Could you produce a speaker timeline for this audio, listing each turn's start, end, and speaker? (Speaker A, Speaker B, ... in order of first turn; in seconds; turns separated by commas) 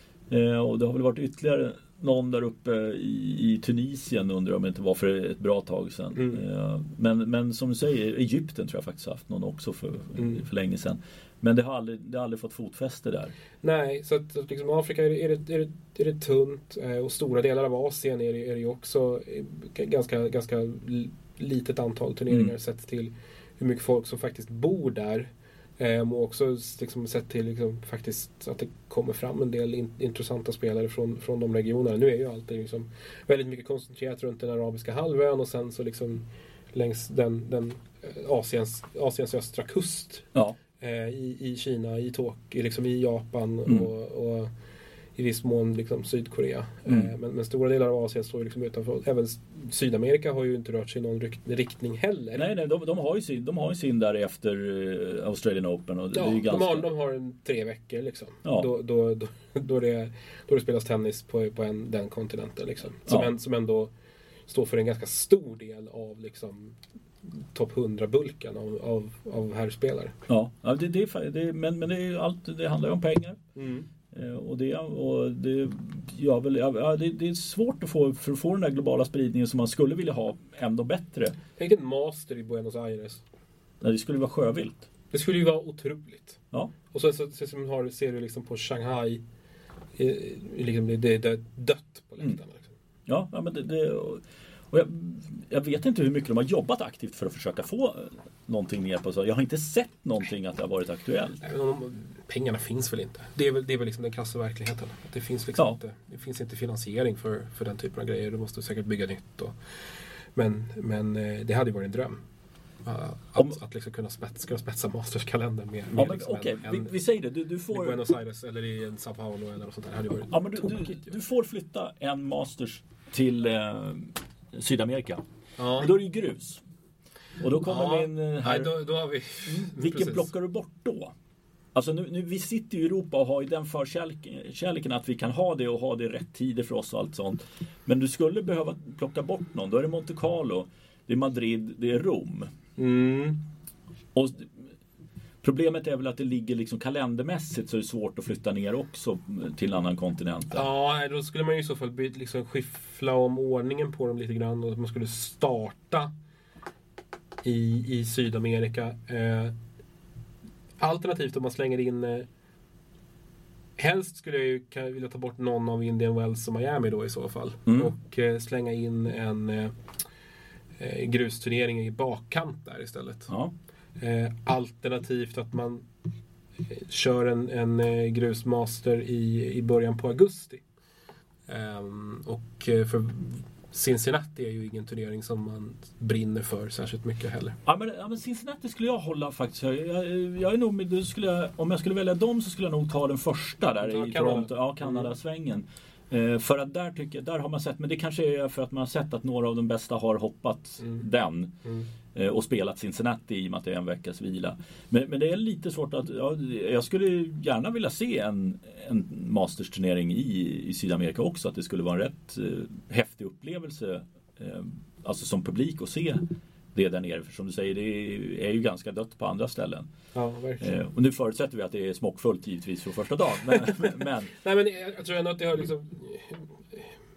Speaker A: 0.3-13.3, Speaker B: 6.2-6.4, Speaker B: 10.2-10.4, Speaker B: 13.6-40.3, Speaker B: 40.8-44.5, Speaker B: 45.2-52.5, Speaker A: 52.4-56.9, Speaker B: 56.1-63.9, Speaker B: 64.5-70.2, Speaker A: 70.3-73.4, Speaker B: 73.6-73.9, Speaker A: 74.1-81.4, Speaker B: 81.6-83.2, Speaker A: 83.8-84.9, Speaker B: 85.1-89.2, Speaker B: 90.0-92.7, Speaker A: 93.1-101.4, Speaker B: 101.4-109.5, Speaker B: 110.4-112.2, Speaker B: 112.8-116.9, Speaker A: 116.0-118.0, Speaker B: 117.7-121.1, Speaker A: 120.3-125.2, Speaker B: 125.6-125.9, Speaker A: 125.8-126.6, Speaker A: 127.4-128.8, Speaker B: 127.6-130.3, Speaker A: 129.5-131.1, Speaker A: 131.8-142.5, Speaker B: 142.8-143.4, Speaker A: 144.1-144.5, Speaker A: 145.4-150.7, Speaker B: 150.5-156.1, Speaker B: 157.4-159.6, Speaker B: 160.8-162.3, Speaker B: 163.8-169.8, Speaker A: 167.7-167.9, Speaker B: 170.8-173.3, Speaker B: 174.0-175.9, Speaker B: 176.7-180.6, Speaker B: 181.5-187.6, Speaker A: 187.7-201.6, Speaker B: 193.8-195.1, Speaker A: 202.1-219.9, Speaker B: 220.1-220.8, Speaker A: 220.6-224.3, Speaker B: 224.3-226.9